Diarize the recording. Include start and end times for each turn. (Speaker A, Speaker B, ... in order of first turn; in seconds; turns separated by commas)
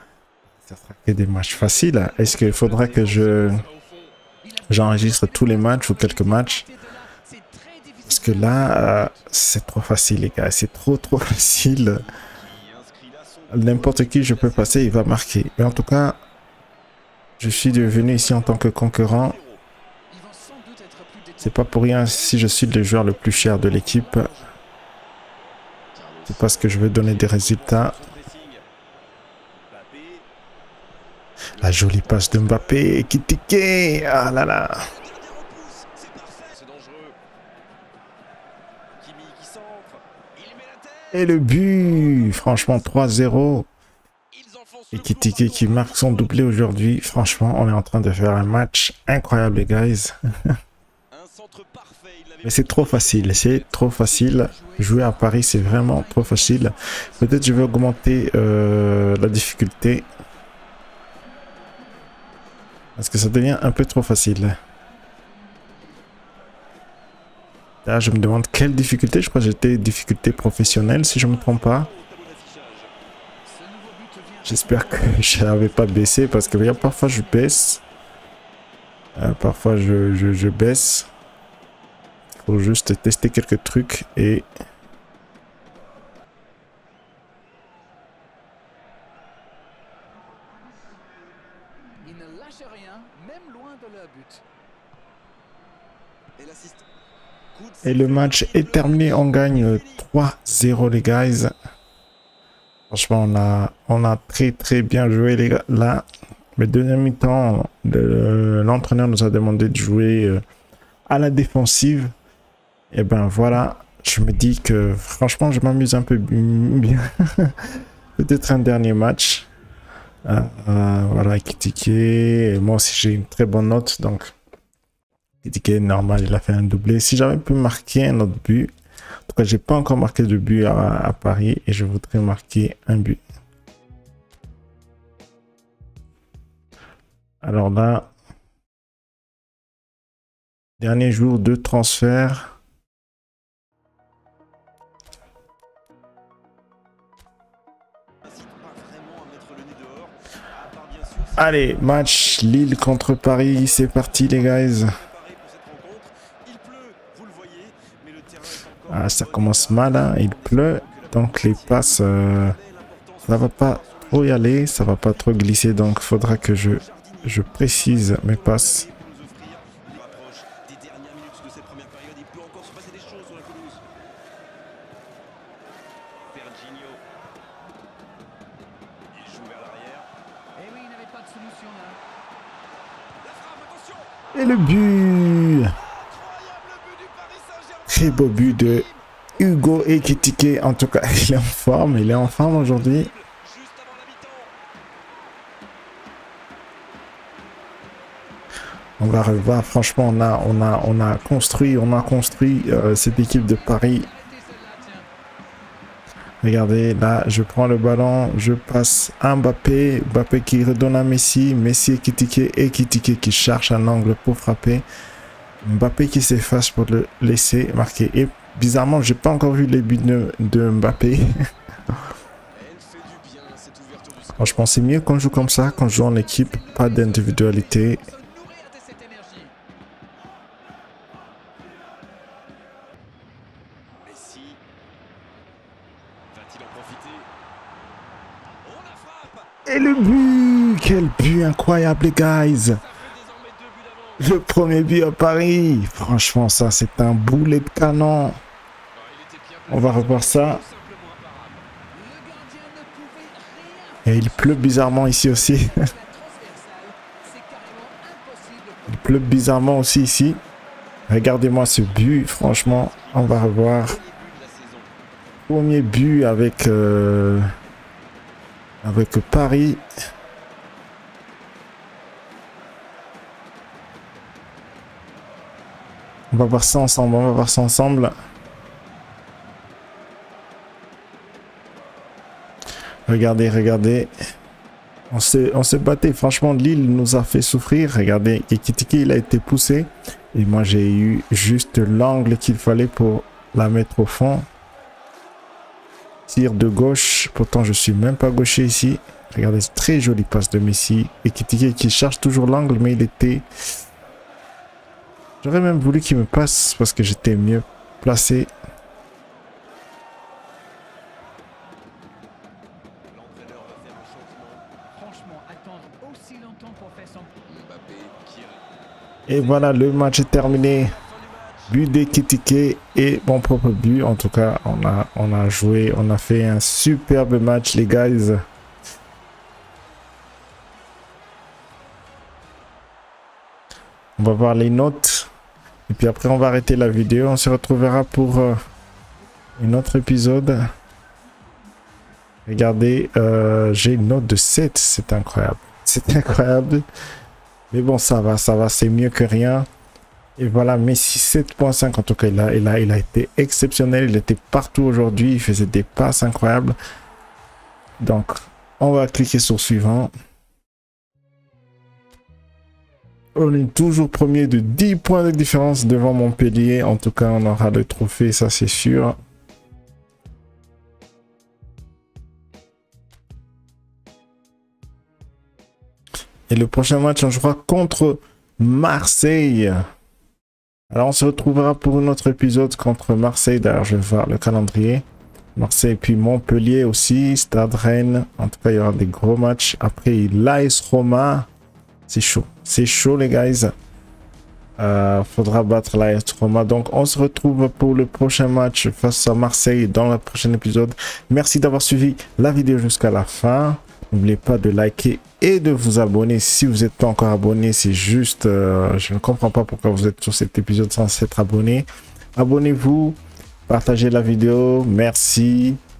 Speaker A: 0.7-3.6, Speaker B: 1.5-4.2, Speaker C: 4.4-9.3, Speaker A: 4.7-6.7, Speaker A: 8.1-12.1, Speaker B: 11.7-15.1, Speaker A: 13.5-16.2, Speaker A: 17.4-19.4, Speaker B: 17.4-19.6, Speaker C: 20.1-24.4, Speaker A: 21.4-24.3, Speaker B: 23.5-24.2, Speaker B: 25.9-28.6, Speaker A: 26.3-28.0, Speaker B: 29.7-30.3, Speaker B: 31.6-33.0, Speaker A: 31.6-34.9, Speaker B: 34.8-37.2, Speaker B: 39.0-43.2, Speaker A: 41.1-43.7, Speaker B: 44.3-47.5, Speaker A: 44.9-50.5, Speaker B: 51.1-53.9, Speaker A: 52.4-60.1, Speaker C: 53.9-57.9, Speaker A: 63.0-64.6, Speaker A: 67.8-71.9, Speaker B: 70.2-72.9, Speaker C: 73.5-77.6, Speaker A: 74.5-77.8, Speaker A: 79.2-81.1, Speaker A: 82.4-84.5, Speaker C: 92.0-94.4, Speaker B: 96.4-96.8, Speaker B: 97.5-100.1, Speaker A: 97.8-101.5, Speaker A: 102.9-106.0, Speaker A: 106.6-110.4, Speaker A: 111.1-112.1, Speaker A: 112.9-119.5, Speaker A: 120.2-124.3, Speaker A: 125.4-128.7, Speaker A: 129.3-133.2, Speaker A: 137.4-138.1, Speaker A: 140.8-142.5, Speaker B: 148.2-173.8, Speaker A: 151.4-154.9, Speaker A: 158.9-162.6, Speaker A: 163.3-168.9, Speaker B: 176.3-177.0, Speaker B: 179.1-180.1, Speaker C: 180.6-182.0, Speaker B: 183.2-184.1, Speaker A: 184.3-185.7, Speaker B: 185.7-190.4, Speaker A: 187.9-193.1, Speaker B: 191.8-194.5, Speaker A: 199.0-204.1, Speaker C: 199.7-205.1, Speaker A: 206.4-214.8, Speaker A: 215.6-221.3, Speaker B: 222.5-225.1, Speaker A: 224.4-228.0, Speaker C: 225.2-229.5, Speaker B: 233.9-234.6, Speaker B: 236.3-237.3, Speaker B: 238.6-239.5, Speaker A: 239.7-242.8, Speaker B: 242.6-244.4, Speaker A: 244.2-248.4, Speaker B: 248.9-251.7, Speaker A: 249.7-250.6, Speaker C: 251.9-259.5, Speaker A: 254.1-255.9, Speaker A: 258.9-260.4, Speaker A: 261.1-264.0, Speaker B: 261.5-264.9, Speaker A: 265.5-267.5, Speaker A: 268.8-269.8, Speaker A: 276.3-278.1, Speaker A: 283.1-284.1, Speaker A: 285.1-294.5, Speaker A: 296.3-303.5, Speaker A: 305.4-308.5, Speaker B: 313.1-314.6, Speaker C: 314.9-317.3, Speaker B: 317.5-318.6, Speaker A: 319.3-320.9, Speaker B: 319.3-322.2, Speaker A: 321.7-328.4, Speaker A: 334.2-335.3, Speaker A: 335.9-338.6, Speaker A: 339.6-340.6, Speaker A: 342.5-346.8, Speaker A: 347.7-349.7, Speaker A: 350.4-356.8, Speaker A: 358.0-360.1, Speaker A: 363.4-369.2, Speaker A: 376.5-379.8, Speaker A: 380.9-385.1, Speaker A: 385.6-391.5, Speaker A: 392.1-393.7, Speaker A: 394.8-415.8